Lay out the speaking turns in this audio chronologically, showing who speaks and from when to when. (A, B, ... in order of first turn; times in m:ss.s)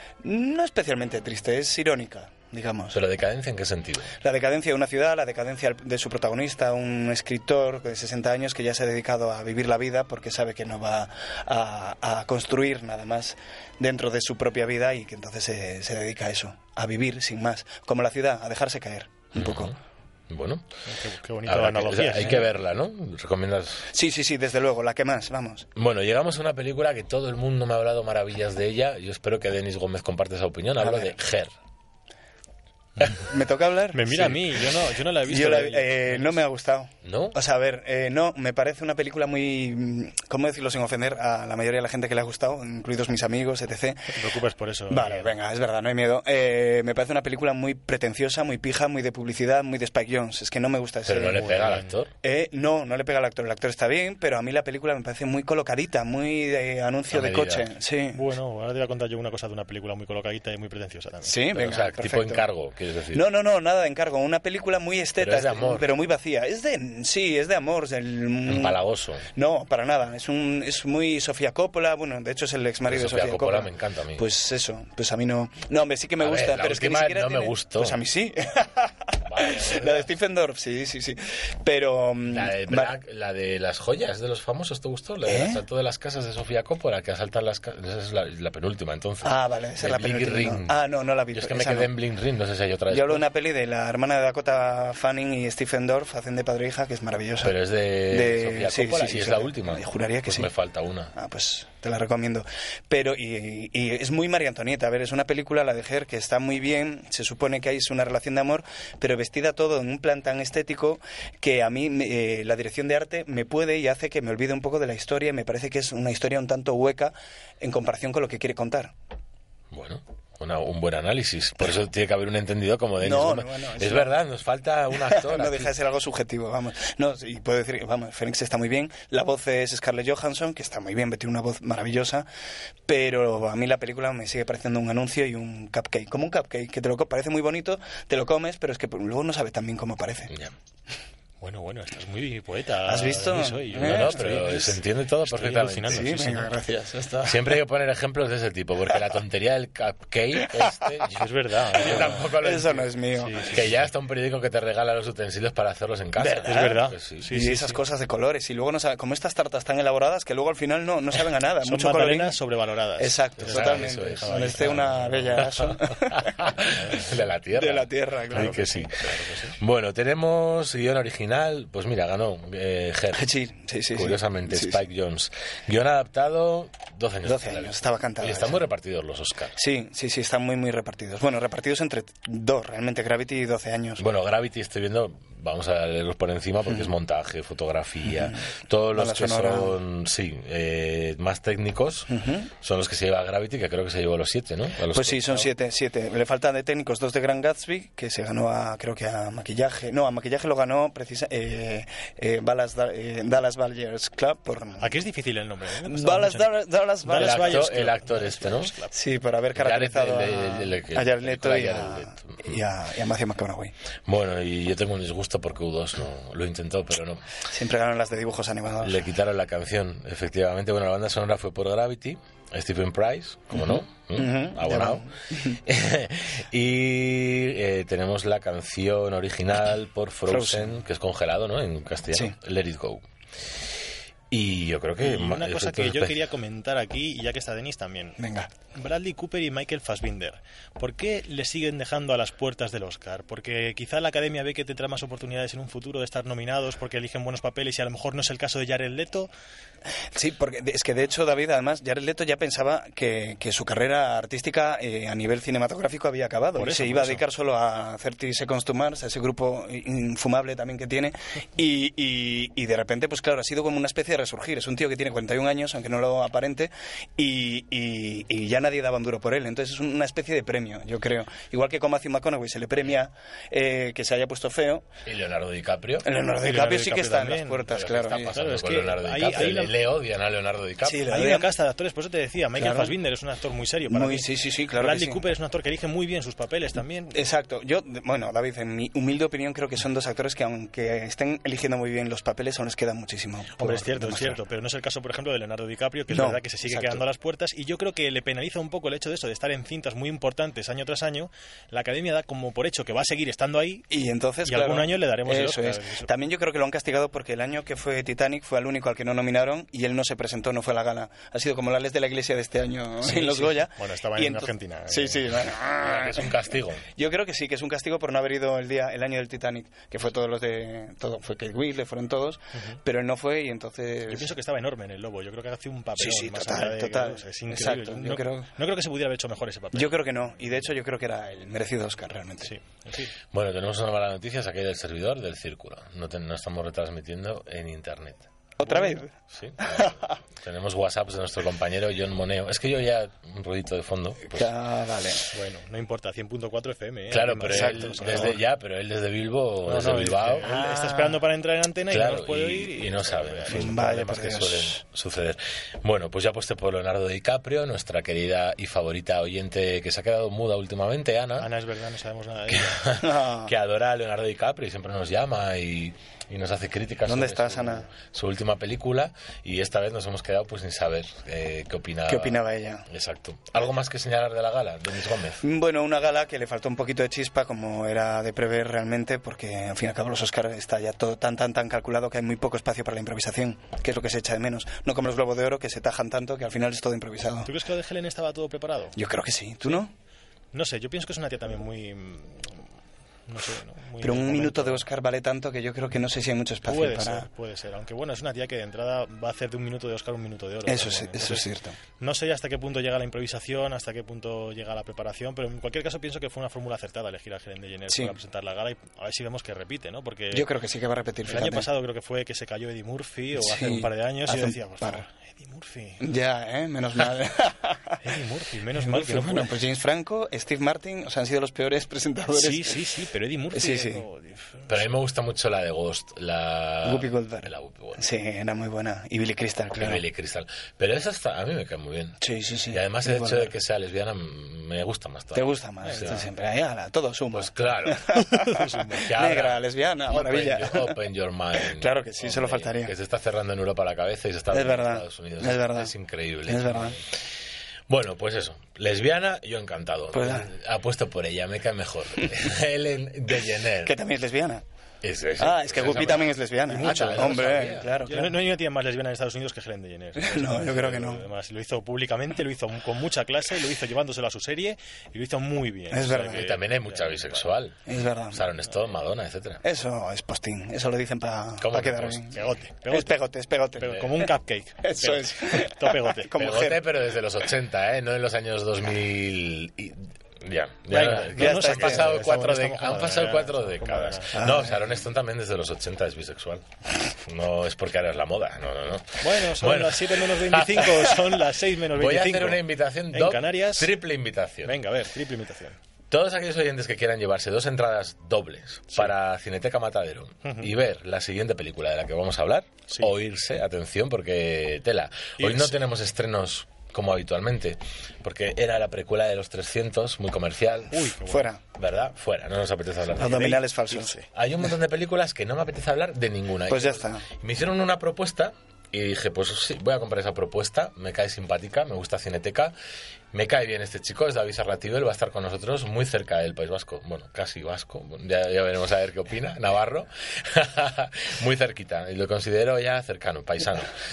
0:00.2-0:03.0 A
0:02.9-0:04.1 B
0:04.2-0:19.7 A
0:19.4-0:19.8 B
0:20.3-0:20.6 B
0:20.9-0:22.4 C
0:21.5-0:23.9 B
0:23.9-0:25.7 A
0:25.8-0:31.5 B
0:30.8-0:31.2 A
0:33.2-0:34.4 A
0:33.9-0:36.4 C
0:35.3-0:44.2 A
0:37.0-0:37.4 B
0:44.1-0:45.3 C
0:44.9-0:51.5 A
0:51.1-0:52.1 B
0:51.3-0:52.0 C
0:52.2-0:58.2 A
0:57.1-0:57.7 B
0:58.1-1:01.4 C
1:01.2-1:02.4 A
1:01.5-1:03.2 B
1:03.1-1:08.8 A
1:05.2-1:05.9 B
1:08.5-1:09.3 B
1:09.3-1:22.9 A
1:12.9-1:14.2 B
1:16.2-1:18.0 B
1:19.3-1:20.1 B
1:22.3-1:30.8 B
1:25.2-1:25.6 A
1:29.2-1:31.9 A
1:31.3-1:33.2 B
1:32.9-1:37.6 A
1:37.4-1:41.1 B
1:38.1-1:40.5 A
1:41.1-1:58.9 A
1:59.7-2:05.7 B
2:03.0-2:04.1 A
2:05.0-2:12.3 A
2:12.9-2:20.3 A
2:21.4-2:24.7 C
2:22.9-2:24.8 A
2:23.7-2:26.4 B
2:25.2-2:26.5 C
2:25.9-2:27.6 A
2:27.2-2:33.0 B
2:31.2-2:32.3 C
2:31.8-2:33.5 A
2:33.2-2:33.6 C
2:33.5-2:37.3 B
2:36.2-2:42.4 A
2:36.5-2:37.8 C
2:41.6-2:45.6 C
2:43.0-2:46.3 A
2:43.4-2:44.8 B
2:45.4-2:53.3 B
2:46.8-2:47.1 C
2:47.5-2:48.9 A
2:48.3-2:49.6 C
2:53.2-2:54.8 A
2:53.9-2:59.6 B
2:57.2-2:58.6 A
2:59.6-3:04.0 A
3:04.0-3:15.5 B
3:08.1-3:08.4 A
3:08.9-3:09.8 A
3:12.1-3:12.5 A
3:14.9-3:25.0 A
3:24.8-3:26.5 C
3:25.8-3:27.7 A
3:27.0-3:28.9 C
3:27.1-3:28.7 B
3:28.9-3:33.7 A
3:29.6-3:32.5 B
3:34.1-3:37.2 B
3:37.5-3:39.0 A
3:38.8-3:53.0 B
3:43.5-3:45.6 A
3:50.3-3:50.8 A
3:54.3-3:56.2 B
3:55.0-3:58.2 C
3:58.2-3:58.5 A
3:58.7-4:09.3 C
4:10.1-4:34.9 A
4:16.6-4:17.2 C
4:35.1-4:36.1 B
4:36.0-4:38.4 A
4:36.4-4:37.7 C
4:37.7-4:41.1 B
4:38.3-4:39.8 C
4:40.8-4:41.5 A
4:41.1-4:47.2 C
4:42.6-4:43.0 A
4:43.9-4:45.2 A
4:47.1-4:54.4 A
4:53.6-5:03.9 C
4:56.1-4:57.0 A
5:03.9-5:16.3 A
5:04.4-5:06.1 C
5:13.0-5:15.3 C
5:15.8-5:16.8 B
5:17.0-5:24.3 A
5:24.1-5:30.0 C
5:26.0-5:28.5 A
5:29.7-5:32.5 A
5:32.4-5:33.1 C
5:33.3-5:38.3 B
5:38.6-5:39.1 A
5:38.6-5:39.0 C
5:39.3-5:44.5 B
5:39.6-5:40.0 A
5:44.3-5:45.3 A
5:45.3-5:48.4 C
5:47.1-5:50.5 B
5:47.5-5:48.4 A
5:49.6-5:54.3 C
5:50.4-5:51.2 A
5:51.9-6:01.5 B
5:53.5-5:54.8 A
6:01.4-6:02.9 C
6:02.5-6:15.4 B
6:03.0-6:03.5 A
6:07.1-6:07.9 A
6:12.1-6:12.9 A
6:15.4-6:27.5 A
6:27.4-6:29.0 C
6:29.0-6:29.9 A
6:30.5-6:32.6 C
6:33.3-6:34.8 C
6:34.0-6:37.3 A
6:36.7-6:41.5 C
6:40.7-6:41.8 A
6:42.0-6:50.5 C
6:47.9-6:48.2 A
6:50.3-6:51.7 A
6:51.3-6:56.0 C
6:53.4-6:55.0 A
6:56.0-6:58.0 A
6:58.0-6:59.5 C
6:58.7-7:02.8 A
7:02.3-7:04.8 C
7:03.5-7:04.0 A
7:04.7-7:08.0 B
7:06.8-7:10.0 A
7:09.8-7:16.2 B
7:12.2-7:13.5 A
7:15.3-7:21.0 A
7:15.8-7:16.2 C
7:17.3-7:18.2 B
7:18.3-7:19.1 C
7:19.0-7:27.0 B
7:21.7-7:22.9 A
7:24.5-7:25.9 A
7:26.5-7:27.0 A
7:27.9-7:34.0 B
7:30.1-7:30.5 A
7:33.8-7:34.6 A
7:35.0-7:38.0 B
7:35.4-7:38.3 A
7:35.9-7:36.2 C
7:36.7-7:47.5 C
7:40.2-7:41.2 A
7:45.9-7:46.5 A
7:46.2-7:49.6 B
7:47.9-7:48.5 A
7:49.6-7:52.4 A
7:51.6-7:52.4 B
7:52.3-7:53.2 C
7:52.9-7:54.3 A
7:53.8-7:56.3 C
7:54.8-7:56.8 A
7:56.4-8:11.2 B
8:00.9-8:04.5 C
8:01.3-8:02.2 A
8:04.4-8:04.7 A
8:09.2-8:14.0 C
8:11.9-8:14.8 B
8:14.6-8:15.8 C
8:16.1-8:31.1 B
8:20.4-8:20.7 C
8:25.4-8:25.8 C
8:30.9-8:31.5 C
8:31.3-8:31.6 A
8:31.8-8:33.6 B
8:33.2-8:34.1 A
8:33.9-8:34.3 C
8:34.3-8:42.7 B
8:36.7-8:37.2 A
8:43.3-8:53.9 B